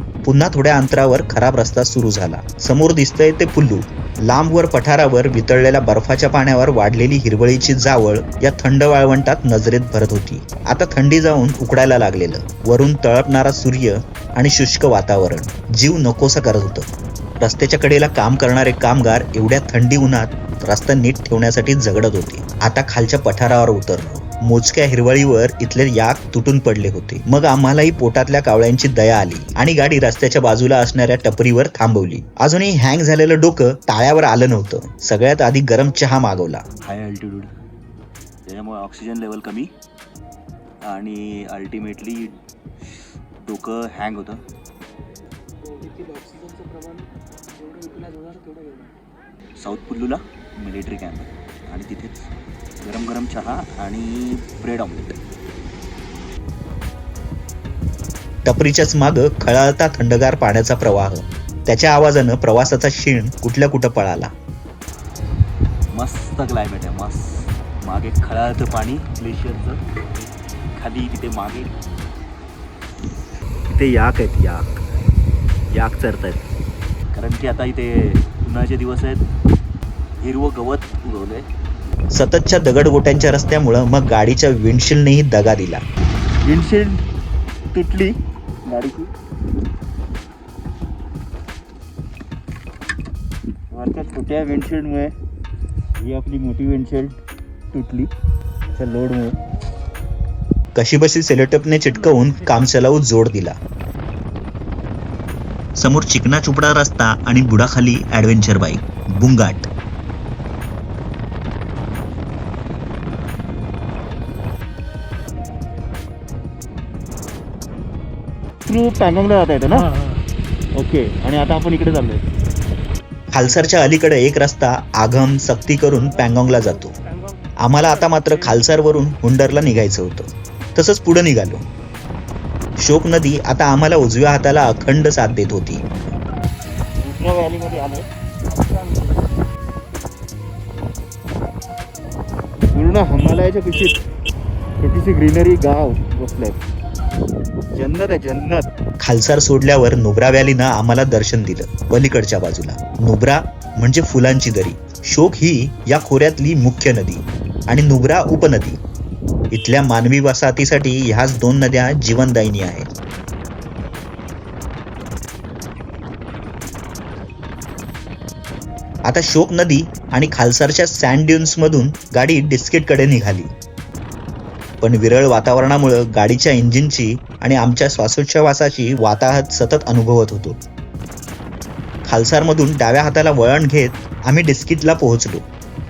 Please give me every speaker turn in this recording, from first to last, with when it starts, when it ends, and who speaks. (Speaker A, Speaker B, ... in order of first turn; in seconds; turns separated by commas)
Speaker A: 0.2-16.9, Speaker A: 17.4-36.6, Speaker B: 36.8-37.5, Speaker B: 38.5-39.7, Speaker B: 40.8-42.4, Speaker B: 42.9-44.4, Speaker C: 45.6-48.9, Speaker B: 49.6-55.2, Speaker A: 58.4-64.3, Speaker B: 65.9-71.7, Speaker B: 73.7-74.6, Speaker B: 75.7-76.3, Speaker B: 77.1-79.2, Speaker B: 80.2-81.5, Speaker A: 82.1-85.8, Speaker B: 86.4-87.0, Speaker B: 87.7-88.1, Speaker B: 88.7-89.1, Speaker B: 93.7-95.1, Speaker B: 96.0-97.2, Speaker B: 97.7-98.1, Speaker B: 98.8-99.3, Speaker A: 100.7-103.5, Speaker A: 105.8-109.7, Speaker B: 118.7-119.9, Speaker C: 119.7-120.2, Speaker B: 120.8-122.2, Speaker A: 123.3-126.9, Speaker C: 126.2-127.4, Speaker A: 127.6-131.6, Speaker A: 132.8-135.8, Speaker B: 137.0-138.0, Speaker B: 142.7-144.0, Speaker B: 144.8-146.6, Speaker B: 147.7-148.7, Speaker A: 149.0-158.8, Speaker A: 159.5-162.9, Speaker A: 169.1-173.5, Speaker A: 174.8-180.6, Speaker A: 182.1-185.5